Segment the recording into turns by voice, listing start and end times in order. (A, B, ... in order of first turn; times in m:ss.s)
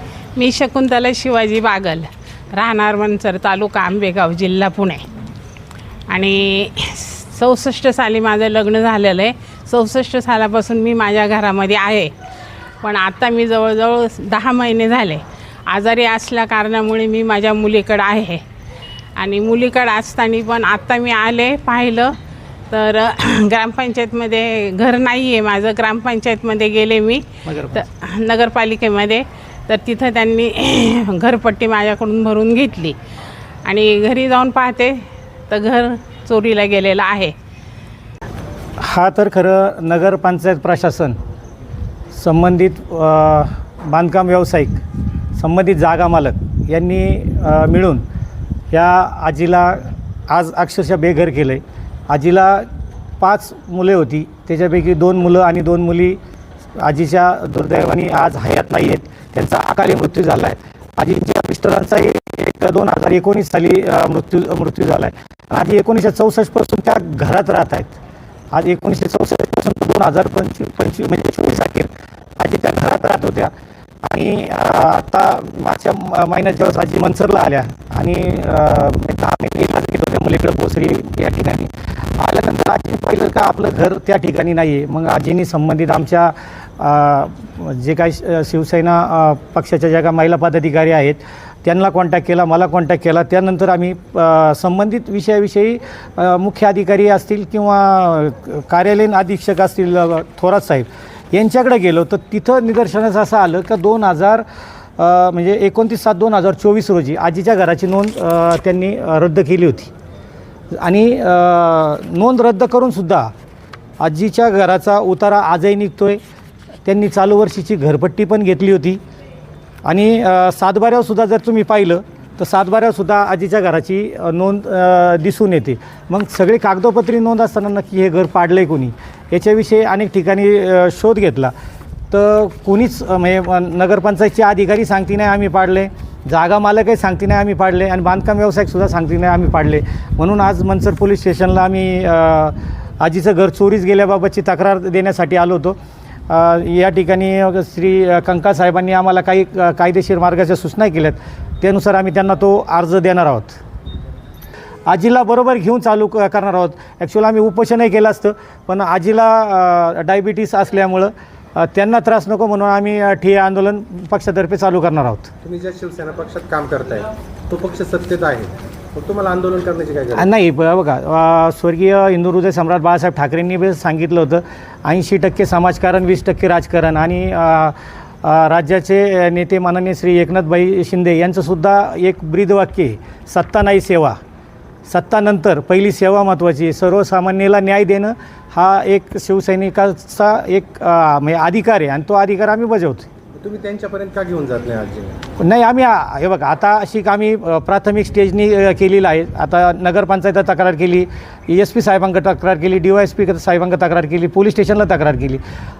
0:00.4-0:02.0 A
0:02.6-0:05.0 A
0:06.1-0:12.1 A
0:12.8-0:15.2 A
0:15.7-0:18.4 A
0:19.2-0:22.1 A
0:22.7-0:27.2 A
0:27.4-0:27.9 B
0:28.2-0:33.0 A
0:33.7-0:35.0 A
0:35.5-0:37.3 A
0:38.8-0:41.2 B
0:42.2-0:44.8 B
0:45.4-0:48.0 B
0:48.7-0:52.7 B
0:53.2-0:56.2 B
0:56.8-1:08.0 B
1:08.5-1:13.5 B
1:14.0-1:44.4 B
1:45.0-1:49.9 B
1:50.7-1:53.3 B
1:54.0-1:56.2 B
1:56.9-1:59.0 B
1:59.8-2:11.5 B
2:12.1-2:25.8 B
2:26.3-2:33.6 B
2:34.9-2:45.3 B
2:45.4-2:50.3 C
2:50.2-3:04.2 B
3:04.9-3:13.1 B
3:13.4-3:15.2 C
3:15.4-3:25.4 B